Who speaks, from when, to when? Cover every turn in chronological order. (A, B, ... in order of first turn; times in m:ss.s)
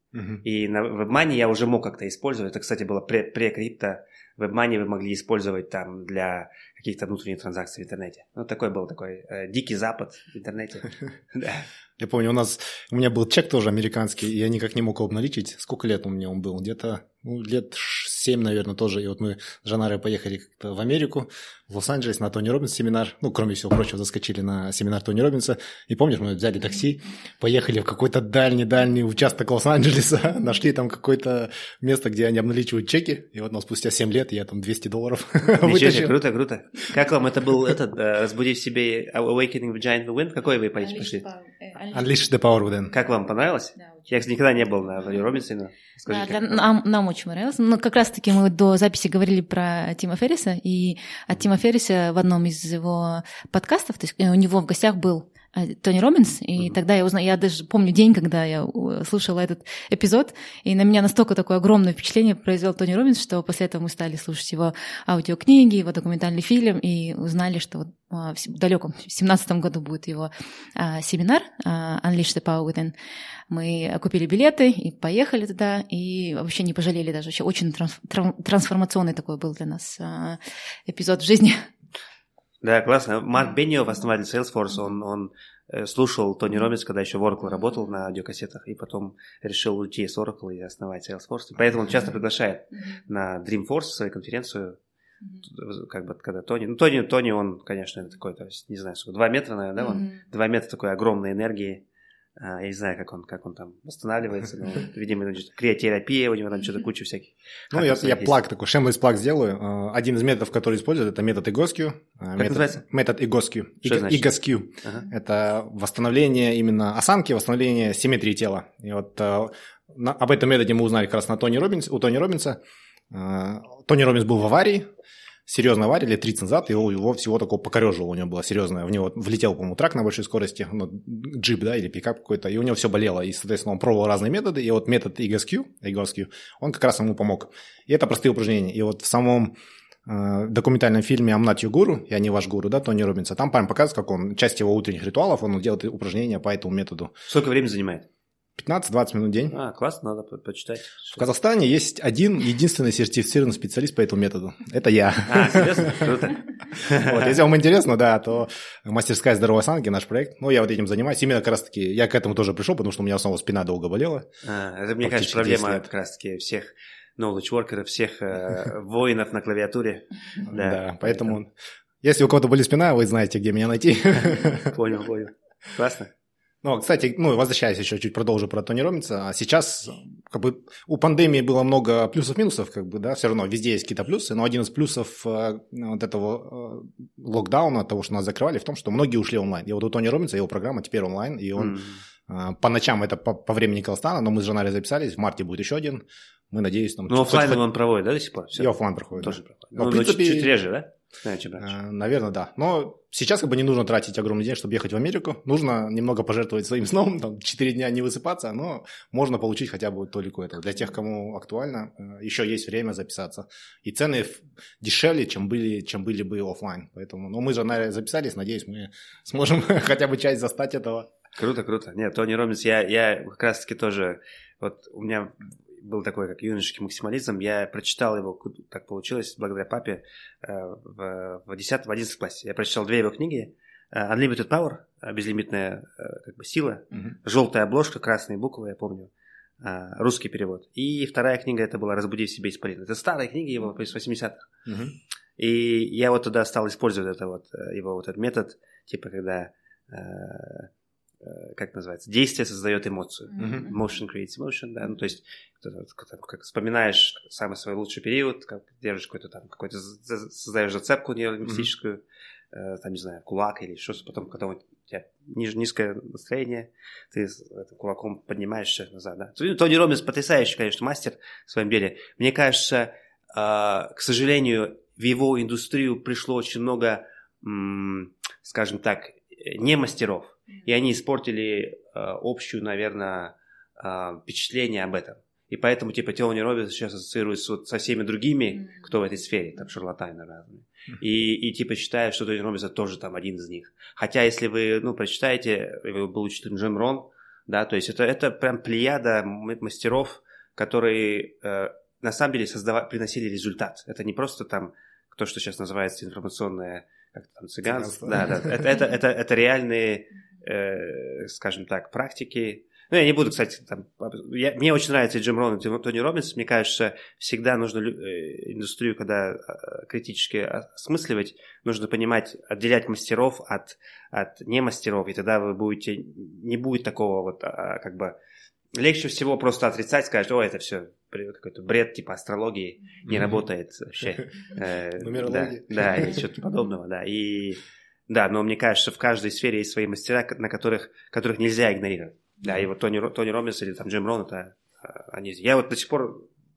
0:00.1-0:00.4 A
0:00.4-0:11.7 B
0:12.0-0:36.2 A
0:35.6-0:41.2 B
0:40.8-0:42.1 C
0:41.9-0:42.9 A
0:42.9-0:46.6 B
0:46.0-1:12.9 C
1:13.5-1:21.7 C
1:22.6-1:34.8 B
1:35.4-1:41.8 B
1:42.4-1:48.4 B
1:47.7-2:02.6 A
1:52.4-1:52.8 B
1:53.8-1:54.3 B
2:03.1-2:04.9 A
2:05.4-2:19.5 A
2:20.0-2:27.1 A
2:27.3-2:28.1 B
2:28.6-2:29.5 A
2:29.5-2:31.2 B
2:31.1-2:36.2 A
2:35.3-2:37.4 B
2:36.8-2:44.3 A
2:44.4-2:51.4 B
2:45.0-2:45.9 A
2:50.5-2:51.5 A
2:52.0-2:54.7 A
2:54.3-2:56.1 B
2:56.6-3:17.6 A
3:11.6-3:12.0 B
3:17.1-3:21.7 B
3:18.6-3:20.5 A
3:21.6-3:41.1 A
3:41.4-3:59.1 B
3:59.6-4:04.5 B
4:04.6-4:04.9 A
4:05.4-4:10.7 B
4:11.2-4:22.0 B
4:13.4-4:13.7 A
4:22.5-5:28.2 B
5:07.6-5:08.7 A
5:28.8-5:46.3 B
5:33.0-5:33.4 A
5:35.0-5:36.3 A